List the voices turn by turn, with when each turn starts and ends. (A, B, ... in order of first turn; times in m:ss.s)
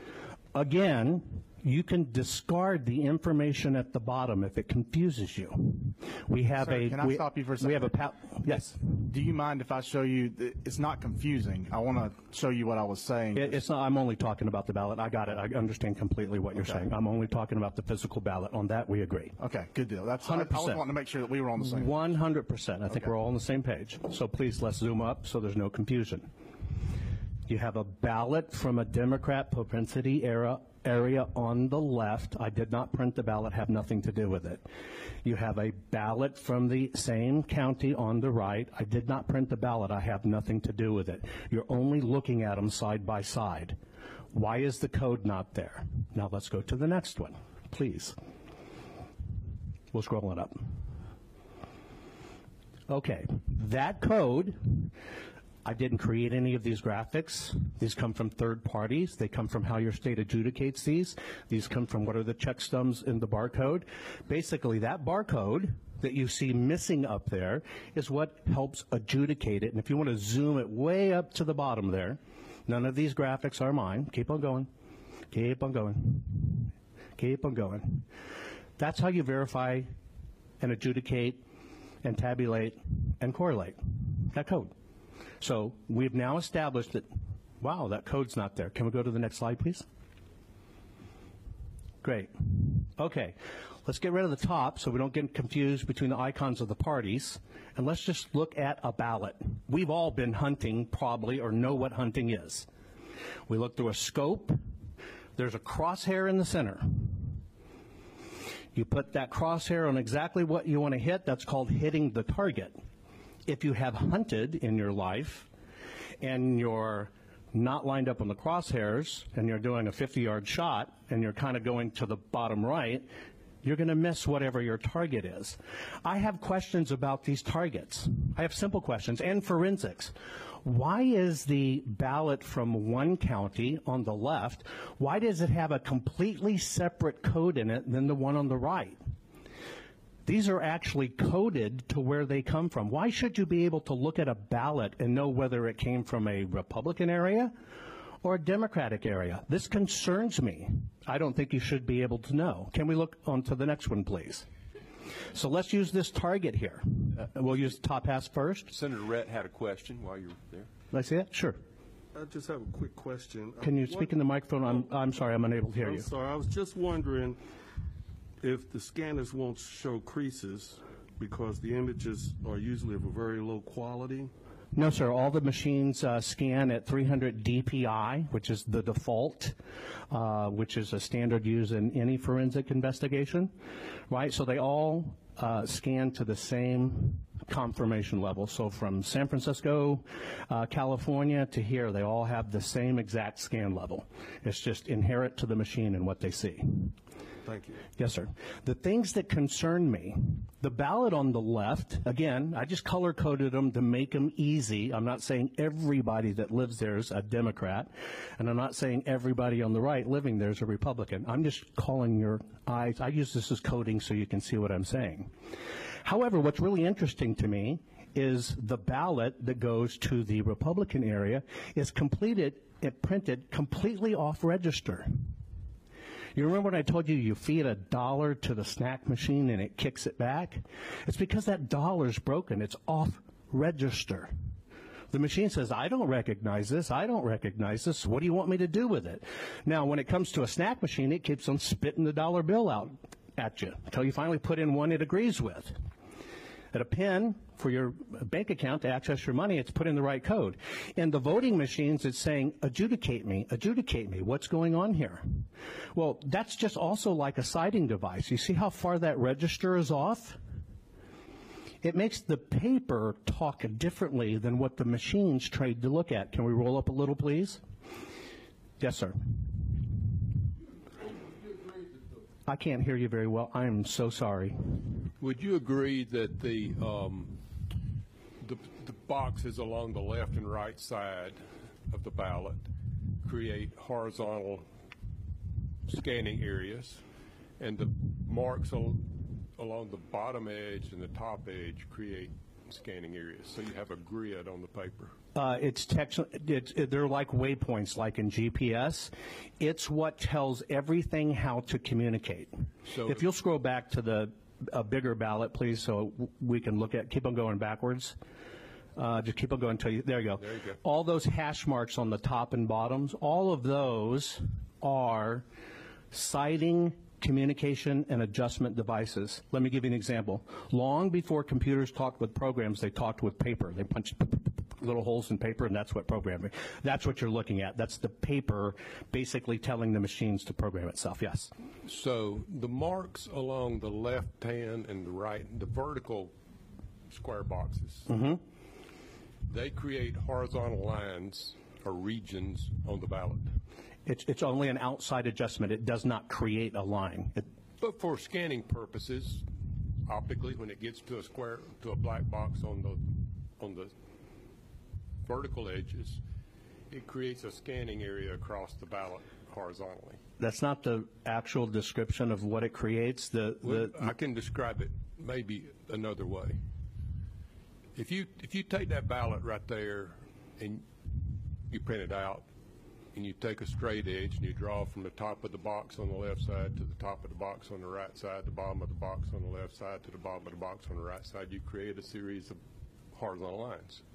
0:00.5-0:08.8 A
0:06.6-0:08.0 B
0:08.5-0:13.6 B
0:13.3-0:19.4 A
0:16.6-0:16.9 B
0:19.4-0:21.9 B
0:20.2-0:20.9 A
0:21.6-0:26.3 A
0:27.5-0:34.6 A
0:35.2-0:43.8 A
0:44.3-0:48.2 A
0:49.9-0:50.6 A
0:52.9-0:54.9 A
0:55.6-1:14.7 A
1:15.3-1:18.1 A
1:18.8-1:19.9 A
1:20.6-1:21.4 A
1:22.0-1:24.7 A
1:25.4-1:27.1 A
1:27.6-1:29.9 A
1:32.0-1:42.7 A
1:43.5-1:44.6 A
1:45.4-1:47.4 A
1:48.7-1:52.8 A
1:53.5-1:55.5 A
1:56.2-2:03.1 A
2:03.6-2:19.0 A
2:20.2-2:27.5 A
2:28.2-2:34.5 A
2:35.3-2:38.7 A
2:38.7-2:40.7 C
2:40.9-2:41.6 A
2:42.1-2:44.9 D
2:43.6-2:46.1 A
2:45.8-2:47.4 D
2:48.4-2:54.3 D
2:54.7-2:59.6 A
3:00.1-3:03.5 A
3:04.1-3:16.9 A
3:17.5-3:17.8 D
3:18.0-3:35.3 A
3:36.0-3:45.1 A
3:46.4-3:54.3 A
3:55.1-4:05.8 A
4:06.7-4:20.4 A
4:21.8-4:27.6 A
4:28.8-4:29.2 A
4:31.4-4:32.1 E
4:32.5-4:34.7 A
4:35.2-4:37.4 E
4:38.4-4:42.7 E
4:43.2-4:44.6 E
4:45.9-4:47.0 E
4:47.6-4:55.2 E
4:55.4-5:08.2 A
5:02.9-5:03.3 E
5:09.0-5:15.5 A
5:10.5-5:10.8 E
5:16.1-5:31.5 A
5:31.8-5:36.3 E
5:37.1-5:38.1 E
5:38.1-5:38.4 A
5:39.5-5:43.5 E
5:44.1-5:47.5 A
5:47.8-5:49.5 E
5:50.1-5:53.0 E
5:53.6-5:53.9 E
5:55.2-5:56.2 E
5:56.9-6:00.2 E
6:00.4-6:04.1 A
6:03.6-6:06.6 E
6:08.0-6:10.9 E
6:11.7-6:12.5 E
6:13.1-6:22.6 E
6:23.1-6:24.0 E